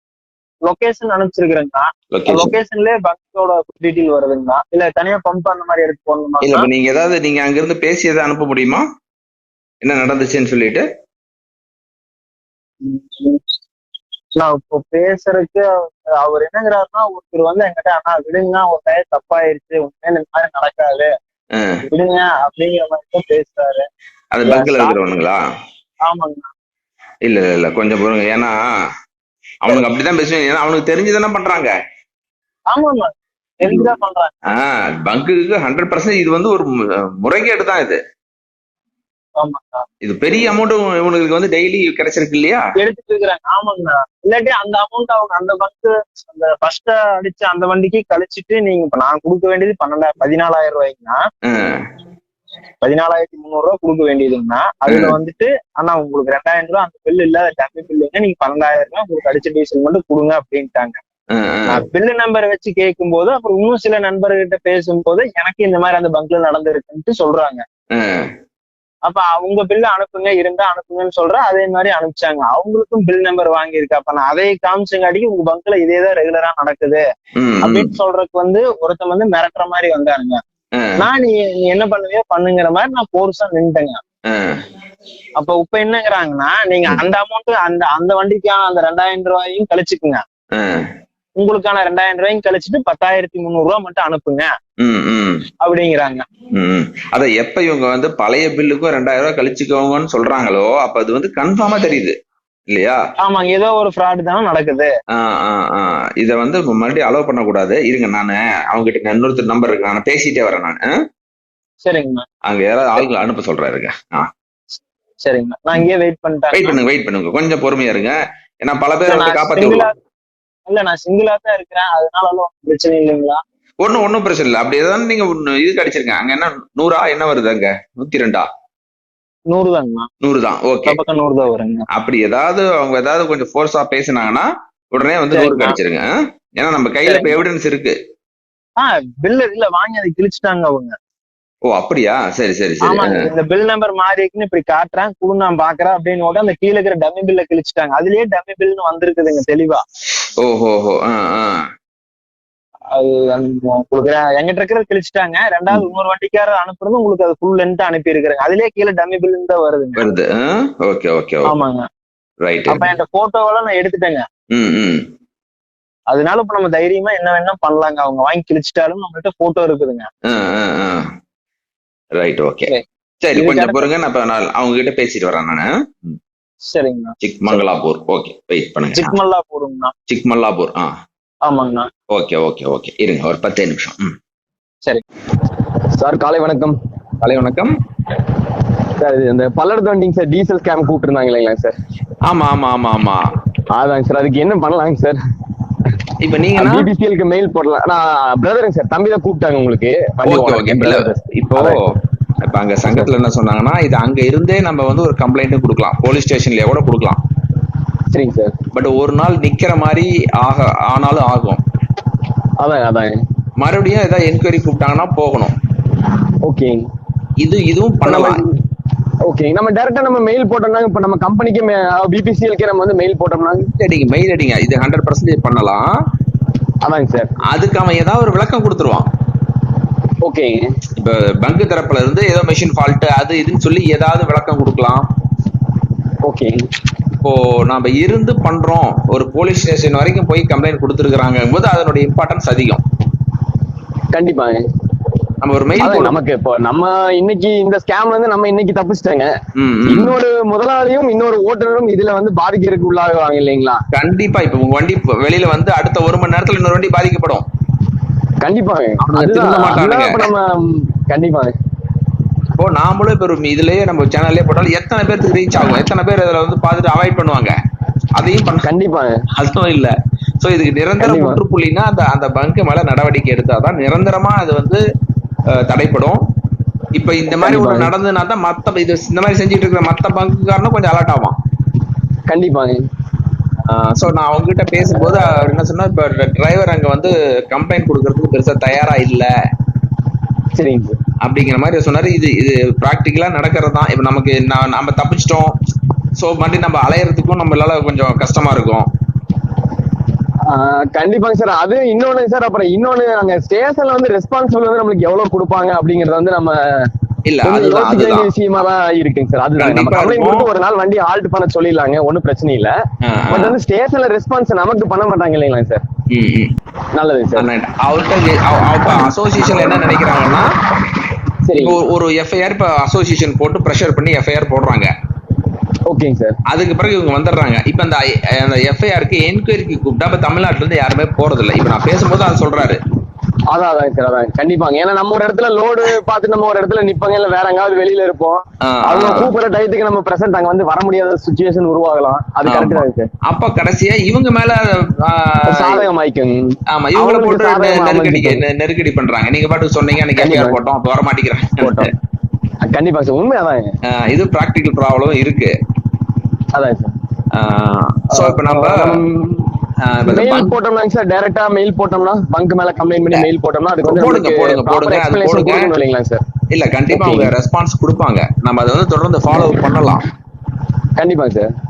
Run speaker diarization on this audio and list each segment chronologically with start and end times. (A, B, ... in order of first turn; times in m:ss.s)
0:00.6-0:06.7 A
0:02.1-0:02.5 B
0:06.4-0:08.8 B
0:09.8-0:10.8 B
0:12.8-0:13.4 A
0:14.4-0:15.7 A
0:16.2-0:21.1 A
0:21.6-0:21.8 B
0:21.9-0:23.8 A
0:24.3-0:25.4 B
0:24.4-0:25.0 A
0:26.1-0:26.5 A
0:27.2-0:28.6 B
0:29.6-0:31.7 B
0:32.7-0:34.3 A
0:34.5-0:36.7 B
0:37.2-0:38.0 B
0:39.4-0:39.8 A
0:40.0-0:42.6 B
0:42.8-0:51.2 A
0:51.5-0:51.8 B
0:52.8-1:01.0 A
0:54.9-0:55.2 B
1:01.3-1:01.8 B
1:01.7-1:07.6 A
1:07.9-1:08.3 B
1:09.1-1:17.0 A
1:17.4-1:17.9 B
1:17.6-1:20.4 A
1:20.8-1:21.1 B
1:21.0-1:24.0 A
1:24.3-1:24.6 B
1:25.4-1:30.2 A
1:30.6-1:30.8 B
1:31.4-1:34.5 A
1:34.8-1:35.4 B
1:35.6-1:36.2 A
1:36.5-1:42.1 B
1:42.7-1:43.0 B
1:43.2-1:44.9 A
1:45.1-1:50.9 B
1:51.8-1:52.3 A
1:52.5-1:54.3 B
1:55.2-1:56.8 A
1:56.5-1:59.9 B
1:59.0-1:59.9 A
2:00.7-2:03.4 A
2:03.8-2:08.5 B
2:09.5-2:10.1 A
2:10.2-2:11.0 B
2:10.9-2:11.9 A
2:11.9-2:18.0 B
2:15.3-2:15.8 A
2:17.0-2:17.4 A
2:18.8-2:20.9 A
2:21.7-2:23.3 B
2:22.8-2:29.8 A
2:30.4-2:31.5 B
2:32.9-2:40.0 A
2:40.0-2:41.5 B
2:41.5-2:41.9 A
2:42.4-2:42.9 B
2:42.7-2:44.2 A
2:44.5-2:45.0 B
2:46.1-2:50.1 A
2:50.3-2:51.0 B
2:52.2-2:56.2 B
2:52.7-2:53.9 A
2:56.7-2:57.6 A
2:57.2-2:59.2 B
2:58.9-2:59.9 A
3:00.1-3:00.9 B
3:01.4-3:01.9 A
3:02.1-3:04.1 B
3:06.0-3:06.8 C
3:07.2-3:07.7 B
3:09.0-3:11.7 C
3:12.3-3:13.2 B
3:13.8-3:15.2 C
3:16.2-3:16.9 B
3:16.6-3:21.8 C
3:20.2-3:21.8 B
3:22.4-3:27.2 B
3:28.1-3:28.6 C
3:28.7-3:31.6 B
3:32.6-3:33.1 C
3:33.6-3:35.6 B
3:36.4-3:36.8 C
3:37.4-3:38.4 B
3:38.0-3:38.5 C
3:39.3-3:43.7 C
3:43.6-3:45.8 B
3:46.8-3:47.3 C
3:47.5-3:49.1 B
3:50.2-3:50.6 C
3:51.0-3:55.0 B
3:56.2-3:56.6 C
3:57.2-4:02.8 B
4:04.1-4:04.6 C
4:05.4-4:06.2 B
4:05.8-4:09.3 C
4:09.6-4:10.2 B
4:09.9-4:13.8 C
4:13.9-4:17.4 B
4:18.4-4:21.5 C
4:19.0-4:20.3 B
4:22.6-4:27.5 B
4:28.2-4:28.7 B
4:28.6-4:29.1 C
4:29.4-4:34.8 B
4:31.0-4:31.4 C
4:35.6-4:36.2 B
4:37.0-4:41.3 B
4:37.4-4:37.9 C
4:42.3-4:42.8 C
4:43.6-4:49.3 B
4:50.5-4:51.0 C
4:51.2-4:55.5 B
4:56.2-4:58.8 B
5:00.5-5:06.6 C
5:07.3-5:08.3 B
5:07.4-5:12.8 C
5:09.6-5:10.4 B
5:13.1-5:13.6 B
5:13.3-5:15.8 C
5:16.1-5:16.5 B
5:16.9-5:17.5 C
5:17.4-5:20.5 B
5:21.4-5:21.8 C
5:21.6-5:24.9 B
5:25.9-5:26.4 C
5:26.5-5:32.8 B
5:33.5-5:43.1 C
5:38.7-5:39.3 B
5:42.5-5:45.8 B
5:45.5-5:48.4 C
5:46.7-5:51.8 B
5:50.2-5:50.6 C
5:51.6-5:51.9 C
5:52.6-5:53.7 C
5:53.9-5:55.5 B
5:56.5-5:56.9 C
5:57.4-5:59.0 B
5:58.1-5:59.5 C
5:59.8-6:00.5 B
6:00.1-6:06.2 C
6:03.8-6:05.7 B
6:06.5-6:10.0 B
6:06.9-6:07.3 C
6:11.0-6:11.5 C